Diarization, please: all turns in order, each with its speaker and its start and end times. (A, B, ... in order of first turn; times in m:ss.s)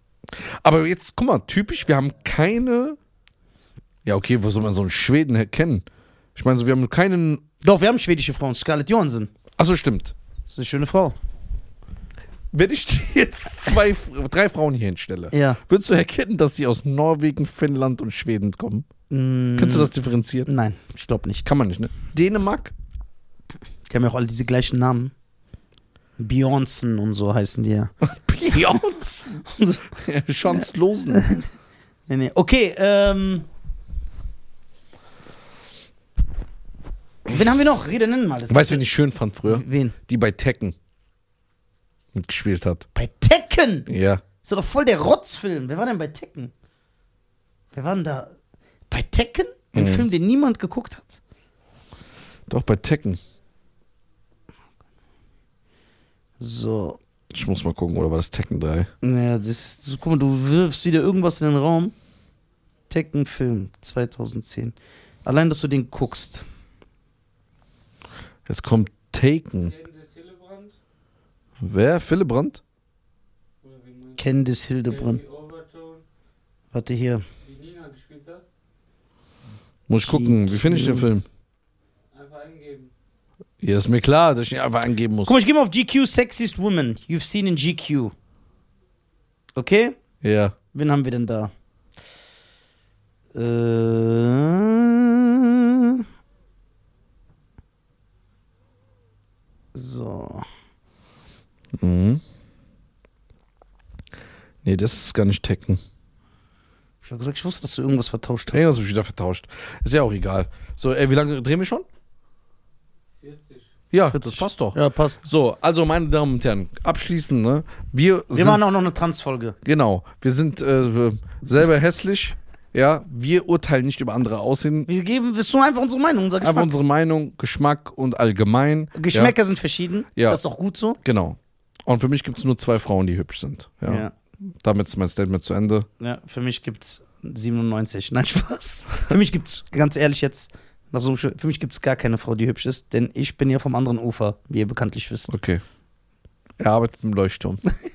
0:00.3-0:03.0 A
0:04.0-0:07.4 A
0:07.6-0:09.3 B
0:09.6-0:10.2 A
0:10.5-0:11.2 B
0:12.5-0:18.9 A
0:15.3-0:15.6 B
0:19.1-0:19.9 B
0:19.6-0:20.5 A
0:20.5-0:21.5 B
0:21.4-0:22.7 A
0:23.9-0:25.1 B
0:26.2-0:27.9 B
0:28.0-0:29.4 A
0:28.5-0:28.8 B
0:29.4-0:29.9 B
0:30.0-0:31.3 A
0:31.1-0:31.5 B
0:32.1-0:33.5 B
0:37.3-0:38.8 B
0:38.5-0:40.8 A
0:39.5-0:40.0 B
0:42.1-0:42.9 A
0:43.0-0:43.9 B
0:43.9-0:44.2 A
0:44.4-0:46.5 B
0:47.7-0:48.3 B
0:48.9-0:51.2 B
0:49.8-0:50.1 A
0:52.5-0:53.2 A
0:56.4-0:57.0 B
0:57.3-0:58.9 A
0:59.0-1:01.9 B
1:02.9-1:04.7 B
1:05.2-1:06.4 B
1:08.5-1:09.7 A
1:09.6-1:10.7 C
1:11.6-1:12.6 A
1:13.6-1:16.0 C
1:14.2-1:15.2 B
1:16.7-1:17.2 B
1:17.4-1:18.4 C
1:19.9-1:21.3 A
1:20.0-1:21.1 B
1:22.1-1:22.9 C
1:23.6-1:25.3 A
1:25.3-1:28.1 B
1:29.6-1:30.0 B
1:30.2-1:30.6 A
1:30.7-1:31.5 B
1:33.3-1:36.0 B
1:39.7-1:40.5 B
1:41.8-1:42.2 A
1:44.6-1:45.8 A
1:47.0-1:48.8 B
1:48.5-1:51.8 A
1:53.2-1:53.7 C
1:53.9-1:58.8 A
1:54.1-1:55.2 B
1:58.3-1:59.6 B
1:59.6-2:04.9 A
2:04.9-2:06.7 B
2:06.4-2:09.4 A
2:09.0-2:11.0 B
2:11.0-2:14.0 A
2:13.9-2:14.1 B
2:14.6-2:15.9 A
2:16.0-2:25.3 B
2:25.3-2:25.6 A
2:26.6-2:27.6 A